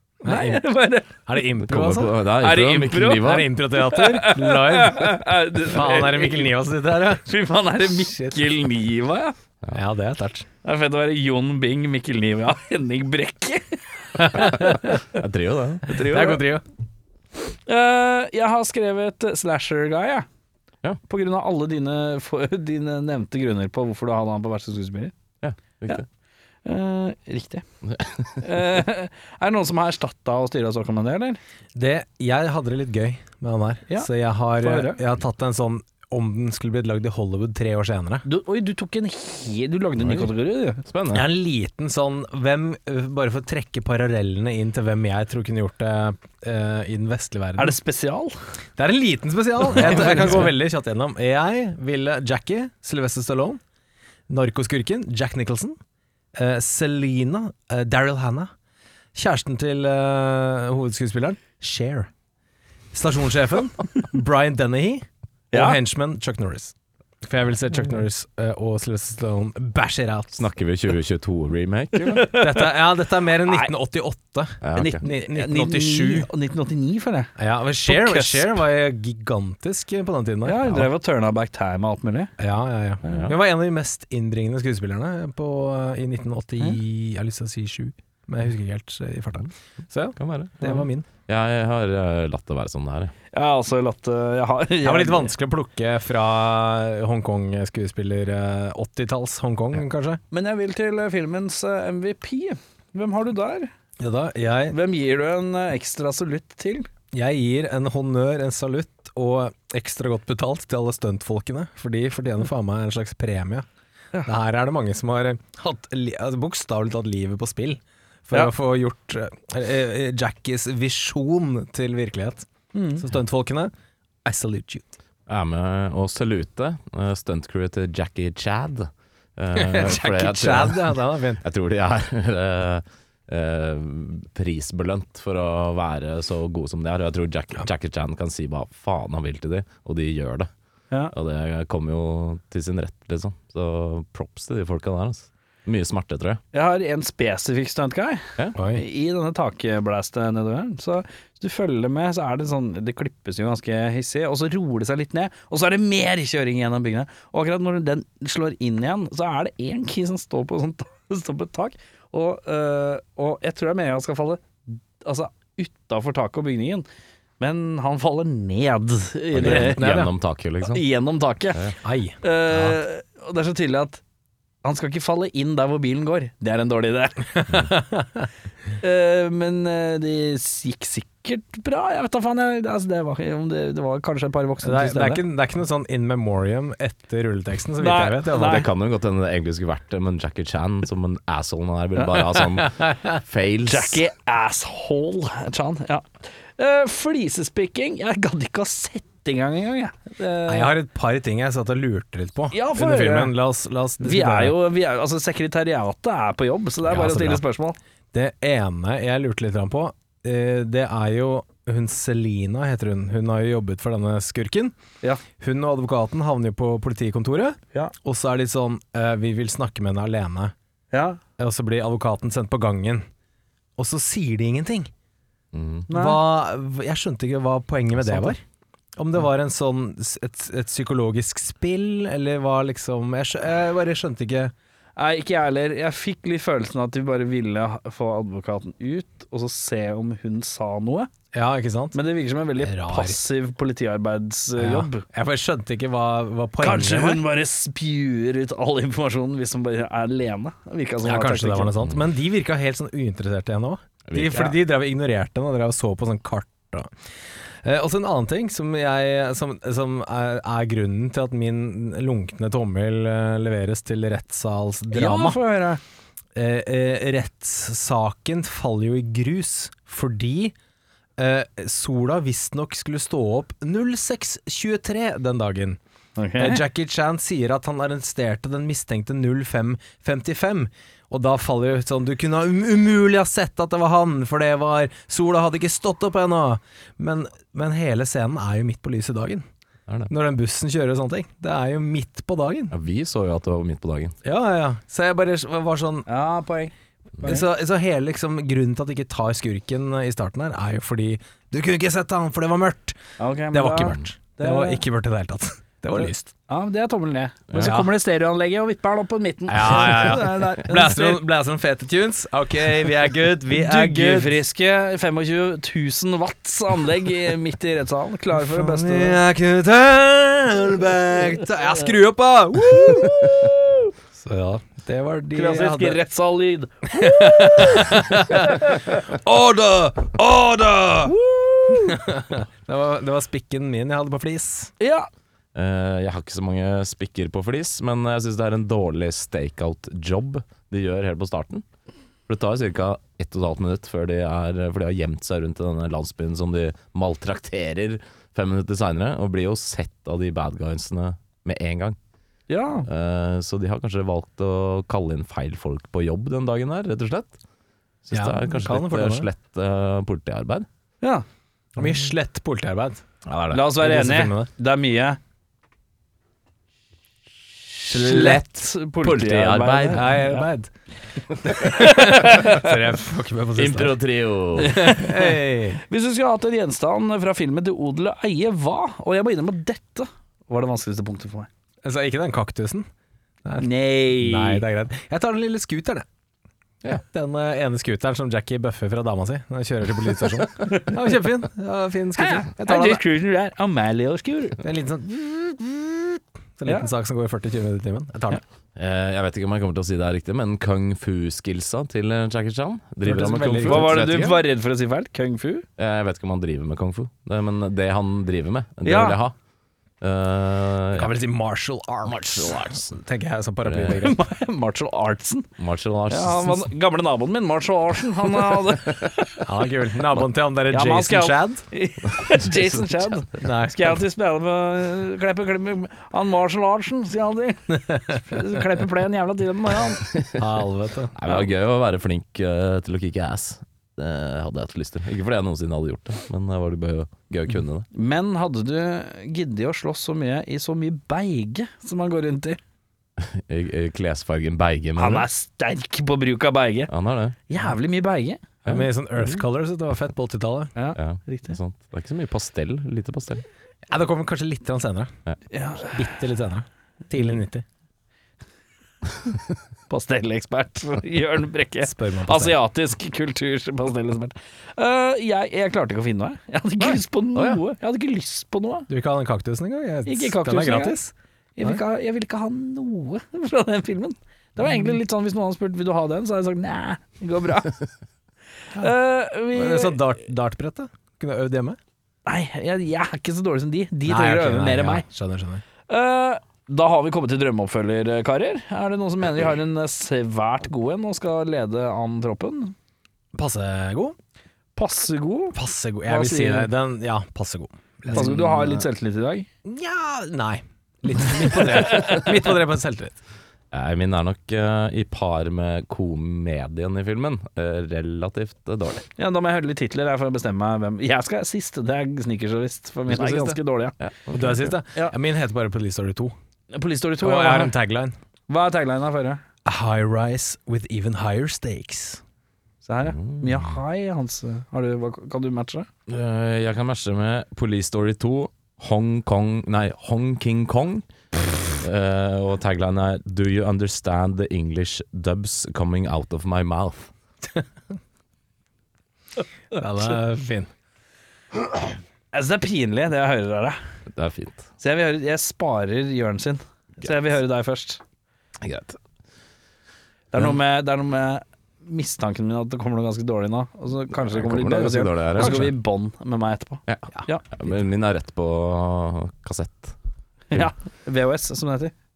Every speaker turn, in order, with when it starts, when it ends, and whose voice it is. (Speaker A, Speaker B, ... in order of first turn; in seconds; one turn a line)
Speaker A: 0.2-0.6
Speaker B: 0.2-1.3
Speaker A: 1.2-2.1
Speaker C: 1.6-3.5
Speaker B: 2.4-6.5
Speaker A: 3.2-7.2
Speaker B: 7.2-9.3
Speaker A: 9.7-10.5
Speaker B: 10.6-14.9
Speaker A: 14.2-15.0
Speaker C: 14.4-15.9
Speaker B: 15.9-16.4
Speaker A: 16.0-16.6
Speaker B: 17.6-20.3
Speaker B: 21.1-25.1
Speaker C: 25.4-26.0
Speaker B: 26.6-27.6
Speaker C: 27.8-28.4
Speaker B: 28.4-31.4
Speaker A: 31.7-38.2
Speaker B: 33.9-35.0
Speaker B: 38.2-40.8
Speaker C: 40.0-40.3
Speaker C: 40.8-41.2
Speaker A: 41.1-47.8
Speaker B: 47.6-48.3
Speaker A: 48.8-53.6
Speaker B: 49.8-50.1
Speaker A: 54.3-55.8
Speaker A: 56.3-58.5
Speaker A: 59.1-62.1
Speaker A: 62.9-70.3
Speaker B: 65.5-65.8
Speaker C: 70.3-72.3
Speaker B: 72.0-72.7
Speaker A: 72.3-76.3
Speaker C: 74.6-75.0
Speaker B: 74.7-77.3
Speaker A: 77.4-80.9
Speaker B: 77.8-78.5
Speaker B: 80.4-82.3
Speaker A: 82.4-91.1
Speaker C: 83.0-83.3
Speaker B: 83.0-83.3
Speaker C: 90.2-93.1
Speaker B: 93.3-95.3
Speaker A: 94.8-100.2
Speaker B: 100.3-103.7
Speaker A: 104.0-104.8
Speaker B: 104.7-106.9
Speaker A: 107.1-113.7
Speaker A: 114.2-123.7
Speaker B: 122.7-123.0
Speaker A: 124.2-124.9
Speaker C: 125.3-140.5
Speaker A: 129.5-131.4
Speaker C: 141.1-146.4
Speaker B: 146.5-166.8
Speaker A: 148.6-148.8
Speaker B: 167.4-169.9
Speaker C: 169.3-170.8
Speaker A: 169.4-170.1
Speaker B: 170.6-174.0
Speaker A: 171.8-172.8
Speaker B: 174.6-177.4
Speaker A: 177.3-178.3
Speaker B: 178.8-185.2
Speaker A: 184.6-188.6
Speaker B: 187.8-188.7
Speaker C: 188.3-194.0
Speaker A: 192.3-193.2
Speaker B: 193.7-200.7
Speaker A: 200.5-204.5
Speaker B: 202.5-203.3
Speaker B: 204.0-207.8
Speaker A: 206.9-207.4
Speaker A: 208.1-214.7
Speaker A: 215.4-220.5
Speaker B: 220.9-221.2
Speaker A: 221.4-223.1
Speaker A: 223.8-224.9
Speaker C: 225.5-225.9
Speaker B: 225.9-226.2
Speaker A: 225.9-228.4
Speaker C: 228.1-228.3
Speaker A: 229.0-234.5
Speaker B: 235.0-241.1
Speaker A: 241.3-242.0
Speaker B: 241.9-245.0
Speaker A: 242.6-243.2
Speaker A: 244.6-247.2
Speaker B: 246.6-251.7
Speaker A: 251.0-256.9
Speaker C: 254.1-254.4
Speaker B: 254.2-254.5
Speaker A: 257.6-265.4
Speaker B: 264.9-265.8
Speaker A: 266.3-270.5
Speaker A: 271.2-275.8
Speaker B: 276.2-276.6
Speaker A: 276.4-289.4
Speaker A: 290.1-292.7
Speaker C: 292.7-294.1
Speaker A: 294.2-296.1
Speaker B: 296.1-297.4
Speaker A: 297.2-303.0
Speaker B: 303.2-304.8
Speaker A: 303.5-306.3
Speaker B: 306.0-311.2
Speaker A: 307.5-307.9
Speaker A: 309.5-314.4
Speaker B: 313.6-319.2
Speaker A: 318.3-326.0
Speaker B: 325.3-329.0
Speaker A: 326.9-331.1
Speaker B: 331.1-332.0
Speaker A: 331.7-334.7
Speaker B: 334.8-335.1
Speaker C: 335.5-341.6
Speaker C: 342.3-352.0
Speaker B: 352.5-352.9
Speaker C: 352.9-357.4
Speaker C: 358.0-360.7
Speaker A: 358.1-359.3
Speaker A: 361.8-363.0
Speaker C: 363.2-363.6
Speaker B: 363.5-365.2
Speaker A: 363.8-364.5
Speaker B: 367.9-370.5
Speaker C: 367.9-370.2
Speaker A: 369.9-370.7
Speaker A: 371.4-373.9
Speaker B: 371.6-372.7
Speaker C: 373.5-374.8
Speaker B: 374.6-381.5
Speaker A: 374.6-375.8
Speaker A: 381.8-382.9
Speaker A: 383.4-386.1
Speaker B: 383.6-384.6
Speaker A: 387.0-393.0
Speaker B: 390.7-391.1
Speaker B: 392.2-394.6
Speaker A: 394.6-398.4
Speaker C: 398.8-404.4
Speaker A: 403.0-404.3
Speaker B: 403.6-405.6
Speaker C: 405.8-409.3
Speaker B: 408.8-409.2
Speaker C: 410.0-411.1
Speaker A: 410.9-414.2
Speaker C: 412.0-412.9
Speaker C: 413.6-414.1
Speaker B: 414.0-415.5
Speaker C: 415.6-416.7
Speaker B: 416.1-419.4
Speaker A: 419.4-421.6
Speaker B: 420.1-430.0
Speaker A: 423.4-424.0
Speaker A: 427.9-428.2
Speaker C: 430.1-430.4
Speaker A: 430.4-431.1
Speaker C: 431.1-437.9
Speaker B: 437.9-442.6
Speaker C: 443.2-445.3
Speaker B: 445.0-446.9
Speaker C: 446.9-447.4
Speaker B: 447.5-448.4
Speaker A: 448.6-450.7
Speaker B: 450.8-451.6
Speaker C: 450.9-453.4
Speaker A: 453.9-455.1
Speaker B: 455.5-456.0
Speaker A: 455.9-457.6
Speaker B: 459.9-468.9
Speaker A: 461.8-462.6
Speaker A: 468.9-471.8
Speaker B: 470.1-471.0
Speaker B: 471.6-477.8
Speaker A: 474.6-474.9
Speaker B: 478.7-480.0
Speaker A: 479.5-481.8
Speaker B: 482.2-485.0
Speaker A: 484.0-485.6
Speaker B: 485.9-492.7
Speaker A: 493.3-494.1
Speaker B: 494.8-496.7
Speaker A: 495.5-498.3
Speaker B: 498.1-499.5
Speaker C: 498.1-498.8
Speaker A: 499.6-503.2
Speaker B: 501.6-502.3
Speaker C: 503.7-509.1
Speaker B: 509.2-513.9
Speaker C: 513.1-514.7
Speaker A: 514.3-516.3
Speaker B: 516.7-517.7
Speaker A: 517.2-518.1
Speaker B: 518.5-519.4
Speaker A: 519.6-522.2
Speaker B: 522.8-525.9
Speaker C: 523.0-523.8
Speaker C: 526.1-531.1
Speaker C: 531.6-537.1
Speaker A: 539.7-540.7
Speaker B: 542.3-543.8
Speaker C: 544.1-544.7
Speaker B: 544.8-548.0
Speaker C: 548.6-549.0
Speaker B: 550.3-557.4
Speaker C: 554.3-555.7
Speaker C: 556.9-560.0
Speaker B: 560.5-561.9